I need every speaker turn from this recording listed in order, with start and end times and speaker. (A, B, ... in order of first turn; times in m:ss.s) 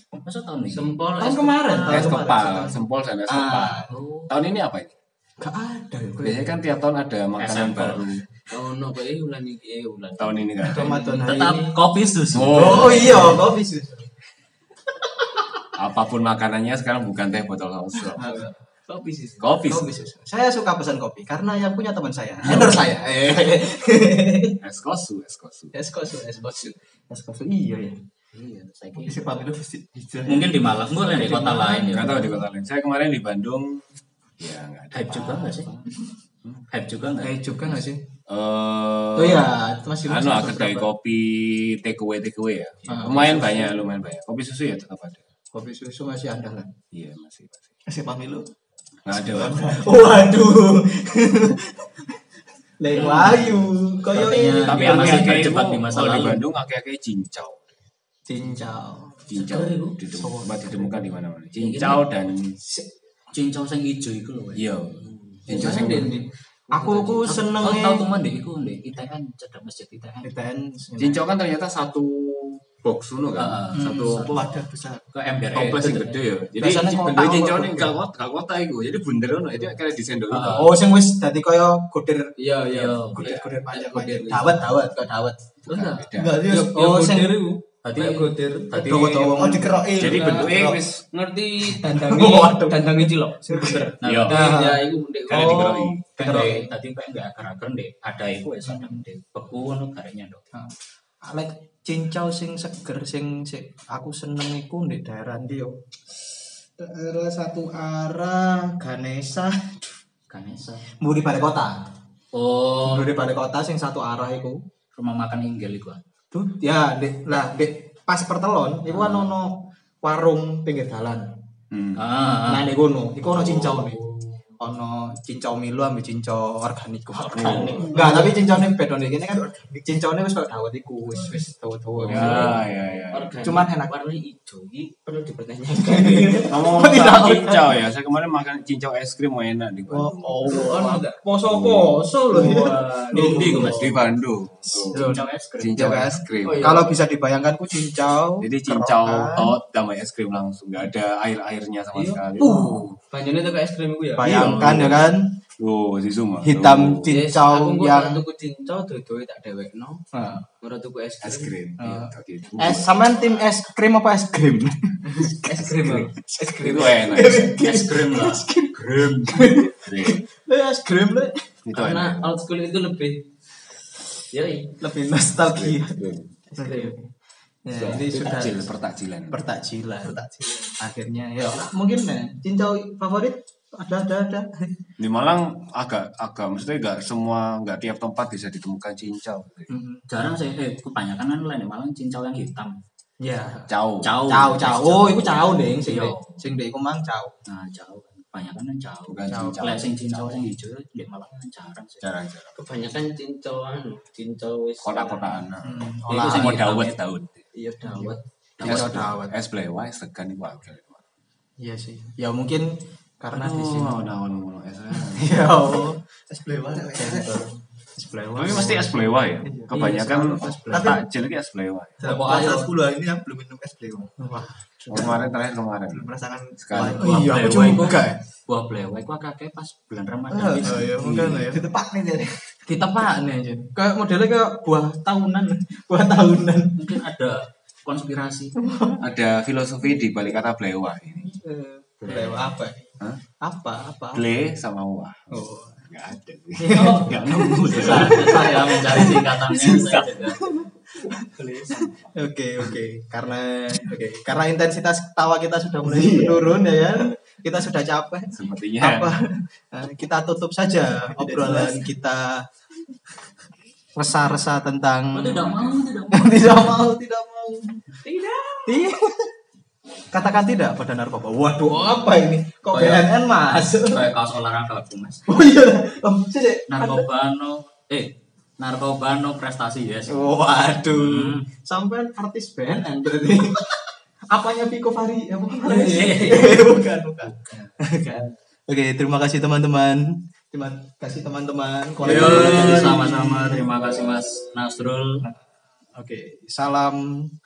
0:00.2-0:00.9 A
0:00.7-0:02.1 B
0:01.2-0:03.9 C
0:01.9-0:04.9 D
0:03.9-0:04.3 A
0:05.4-0:06.6 C
0:06.2-0:08.2 D
0:07.4-0:08.2 A
0:08.5-0:11.4 B
0:10.2-0:10.9 D
0:10.6-0:11.8 C
0:11.2-0:13.4 A
0:12.3-0:13.4 D
0:12.5-0:14.1 C
0:15.0-0:15.4 C
0:15.8-0:18.5 D
0:18.1-0:18.5 C
0:18.4-0:19.6 B
0:19.4-0:20.0 D
0:19.7-0:24.6 C
0:24.6-0:25.7 D
0:25.7-0:28.0 C
0:28.4-0:29.2 A
0:29.0-0:30.6 E
0:30.3-0:32.3 A
0:31.0-0:32.3 C
0:31.9-0:33.8 D
0:34.4-0:35.5 D
0:34.9-0:35.9 A
0:36.7-0:37.8 A
0:37.2-0:38.0 C
0:38.3-0:39.5 D
0:39.2-0:40.9 C
0:40.0-0:45.2 D
0:42.9-0:43.9 C
0:45.5-0:46.7 C
0:46.9-0:47.7 D
0:47.9-0:48.5 E
0:49.0-0:49.8 D
0:49.1-0:49.9 E
0:49.3-0:52.2 C
0:52.8-0:55.4 C
0:52.9-0:53.5 B
0:53.0-0:56.4 A
0:54.6-0:57.8 D
0:58.3-0:59.3 C
0:59.3-1:02.6 D
0:59.3-1:00.0 B
1:00.1-1:01.1 C
1:01.6-1:02.0 B
1:03.3-1:05.2 A
1:04.6-1:06.1 D
1:05.5-1:08.1 C
1:05.5-1:06.2 B
1:06.7-1:07.9 B
1:07.6-1:10.3 A
1:10.2-1:11.2 C
1:11.0-1:14.5 D
1:13.4-1:14.6 A
1:13.8-1:14.2 C
1:14.3-1:15.1 E
1:15.1-1:16.2 A
1:15.5-1:20.8 D
1:16.6-1:18.0 C
1:20.3-1:20.7 A
1:20.5-1:22.3 C
1:22.4-1:24.7 B
1:22.7-1:23.2 A
1:23.2-1:23.6 D
1:23.2-1:25.5 C
1:25.7-1:26.4 D
1:25.7-1:28.7 B
1:26.2-1:26.9 E
1:26.3-1:27.6 C
1:27.8-1:29.5 A
1:28.6-1:29.8 C
1:29.3-1:30.8 E
1:30.0-1:31.0 D
1:30.1-1:30.5 B
1:31.1-1:36.0 B
1:31.8-1:36.7 C
1:34.0-1:34.4 A
1:34.0-1:34.4 D
1:35.3-1:36.0 D
1:36.2-1:40.4 A
1:38.7-1:39.0 C
1:41.2-1:45.8 C
1:46.8-1:50.0 C
1:50.3-1:51.0 A
1:51.0-1:51.8 C
1:52.3-1:53.1 A
1:52.8-1:54.6 C
1:55.0-1:56.0 A
1:56.3-2:01.3 C
1:58.9-1:59.3 A
2:01.7-2:02.0 D
2:02.0-2:02.7 A
2:02.5-2:04.0 C
2:03.2-2:04.0 D
2:04.6-2:12.6 C
2:07.2-2:08.1 D
2:07.4-2:08.0 A
2:09.3-2:09.9 E
2:12.0-2:13.4 D
2:12.1-2:12.5 B
2:13.1-2:16.6 B
2:13.4-2:13.9 C
2:15.8-2:17.7 C
2:16.5-2:20.7 D
2:19.9-2:23.9 C
2:20.5-2:21.2 B
2:21.4-2:22.0 D
2:22.3-2:24.1 A
2:22.5-2:23.8 B
2:23.5-2:25.0 D
2:24.8-2:26.0 A
2:24.9-2:25.2 C
2:25.6-2:26.8 D
2:25.8-2:29.6 C
2:26.4-2:27.0 B
2:28.4-2:32.9 D
2:32.0-2:35.0 B
2:32.4-2:32.8 C
2:34.2-2:35.3 C
2:34.2-2:35.0 D
2:35.6-2:37.2 D
2:36.4-2:38.2 C
2:37.1-2:40.0 B
2:40.1-2:40.5 C
2:40.6-2:41.6 B
2:41.2-2:43.4 D
2:41.8-2:51.5 C
2:45.4-2:46.2 B
2:45.5-2:46.1 D
2:46.6-2:47.6 D
2:47.6-2:49.6 A
2:49.8-2:50.2 D
2:51.6-2:52.4 D
2:51.7-2:53.3 B
2:54.3-2:54.8 B
2:54.8-2:56.0 C
2:55.4-2:56.3 D
2:56.5-2:56.9 B
2:56.6-2:57.1 C
2:57.6-2:58.7 C
2:57.8-2:59.4 D
2:59.3-3:00.2 C
3:00.0-3:00.8 E
3:00.8-3:04.8 C
3:05.0-3:09.7 D
3:09.7-3:10.0 C
3:10.1-3:12.8 A
3:13.2-3:13.7 C
3:13.7-3:14.2 D
3:14.0-3:16.5 A
3:14.3-3:17.4 C
3:17.5-3:22.1 A
3:19.1-3:20.4 D
3:19.3-3:19.7 C
3:22.0-3:22.6 D
3:22.6-3:25.4 B
3:24.8-3:27.5 D
3:25.6-3:26.6 C
3:26.1-3:27.0 A
3:27.6-3:28.2 B
3:27.8-3:29.4 C
3:28.6-3:31.0 D
3:28.7-3:29.0 A
3:31.6-3:34.1 C
3:33.3-3:35.4 D
3:34.9-3:36.0 C
3:36.3-3:37.5 E
3:37.0-3:39.0 C
3:38.3-3:42.0 D
3:39.7-3:41.0 C
3:39.8-3:40.0 B
3:40.7-3:41.0 E
3:42.0-3:44.2 E
3:42.0-3:42.7 A
3:44.2-3:45.2 C
3:44.9-3:46.1 D
3:45.9-3:47.4 E
3:46.6-3:47.2 D
3:46.9-3:48.2 C
3:47.1-3:51.3 A
3:50.3-3:51.7 C
3:50.8-3:51.4 D
3:51.5-3:52.3 E
3:52.7-3:57.0 C
3:56.8-3:58.6 A
3:58.6-3:59.0 C
3:59.0-4:01.3 D
4:01.3-4:04.2 C
4:02.0-4:02.5 A
4:04.1-4:08.7 D
4:05.3-4:05.8 C
4:06.6-4:11.3 C
4:06.7-4:07.1 B
4:07.7-4:10.5 A
4:08.0-4:08.5 B
4:11.4-4:11.8 E
4:12.2-4:22.5 C
4:15.9-4:16.5 D
4:18.3-4:19.1 D
4:21.2-4:21.9 E
4:24.0-4:25.5 C
4:25.1-4:26.8 A
4:25.5-4:25.8 D
4:26.1-4:27.8 C
4:28.0-4:28.8 B
4:28.7-4:29.3 C
4:30.1-4:34.0 C
4:32.7-4:33.1 A
4:33.7-4:35.3 A
4:35.3-4:37.1 C
4:36.7-4:41.5 A
4:40.1-4:53.7 C
4:45.6-4:47.7 A
4:52.0-4:55.3 A
4:52.0-4:54.4 D
4:56.0-4:57.3 C